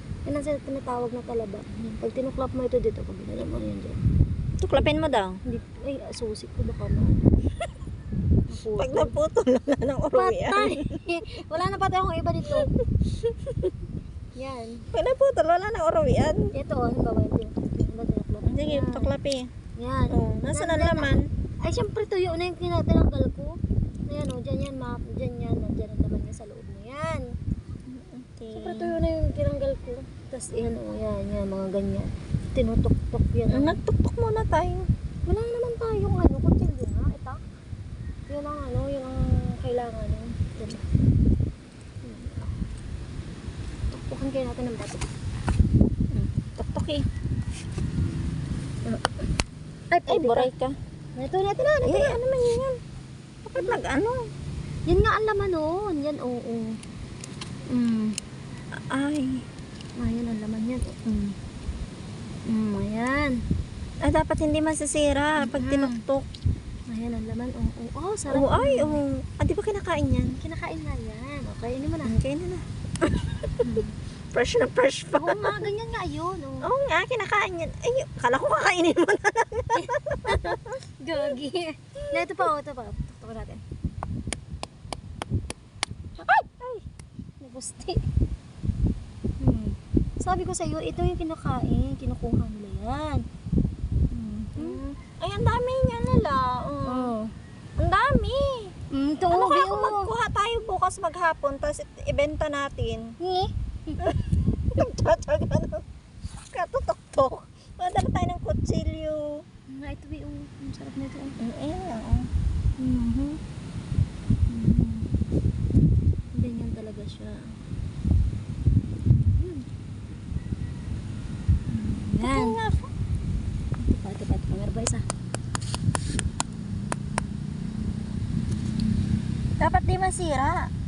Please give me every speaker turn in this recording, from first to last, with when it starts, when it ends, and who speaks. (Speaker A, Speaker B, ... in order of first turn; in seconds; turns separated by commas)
Speaker A: 0.2-4.0, Speaker B: 4.6-5.4, Speaker A: 5.5-7.3, Speaker A: 8.5-9.1, Speaker B: 8.7-10.8, Speaker A: 10.1-12.7, Speaker B: 12.5-13.7, Speaker A: 14.3-14.9, Speaker B: 14.9-16.5, Speaker A: 16.5-19.1, Speaker B: 18.4-19.5, Speaker A: 19.8-27.4, Speaker B: 20.1-21.3, Speaker B: 27.9-29.0, Speaker A: 28.5-33.8, Speaker B: 33.5-34.9, Speaker A: 35.2-37.4, Speaker A: 38.3-40.8, Speaker A: 42.0-42.5, Speaker A: 43.9-45.1, Speaker B: 46.1-47.0, Speaker A: 48.8-49.3, Speaker A: 49.9-50.5, Speaker B: 50.1-50.7, Speaker A: 51.1-52.2, Speaker B: 51.8-52.8, Speaker B: 53.5-54.2, Speaker A: 54.9-56.8, Speaker A: 57.7-58.2, Speaker B: 58.9-59.4, Speaker A: 60.0-61.3, Speaker A: 62.5-63.4, Speaker B: 64.0-66.2, Speaker A: 65.4-66.0, Speaker A: 66.9-69.0, Speaker B: 68.3-70.4, Speaker A: 70.3-72.2, Speaker B: 72.0-73.8, Speaker A: 73.6-73.9, Speaker B: 74.3-75.5, Speaker A: 75.1-76.7, Speaker B: 76.6-80.8, Speaker A: 79.7-83.6, Speaker B: 82.1-82.3, Speaker A: 86.2-86.8, Speaker A: 87.4-88.0, Speaker A: 89.4-93.2, Speaker A: 94.1-95.0, Speaker B: 94.5-97.1, Speaker A: 96.8-97.3, Speaker B: 97.8-98.7, Speaker A: 98.9-100.1, Speaker B: 99.3-103.1, Speaker A: 103.2-104.0, Speaker B: 104.0-105.8, Speaker B: 106.5-109.4, Speaker A: 109.7-111.4, Speaker B: 111.4-112.3, Speaker A: 112.8-113.4, Speaker A: 114.5-115.1, Speaker A: 116.3-117.5, Speaker A: 119.1-119.7, Speaker A: 121.7-122.5, Speaker B: 122.2-122.9, Speaker A: 123.8-125.0, Speaker B: 129.6-130.7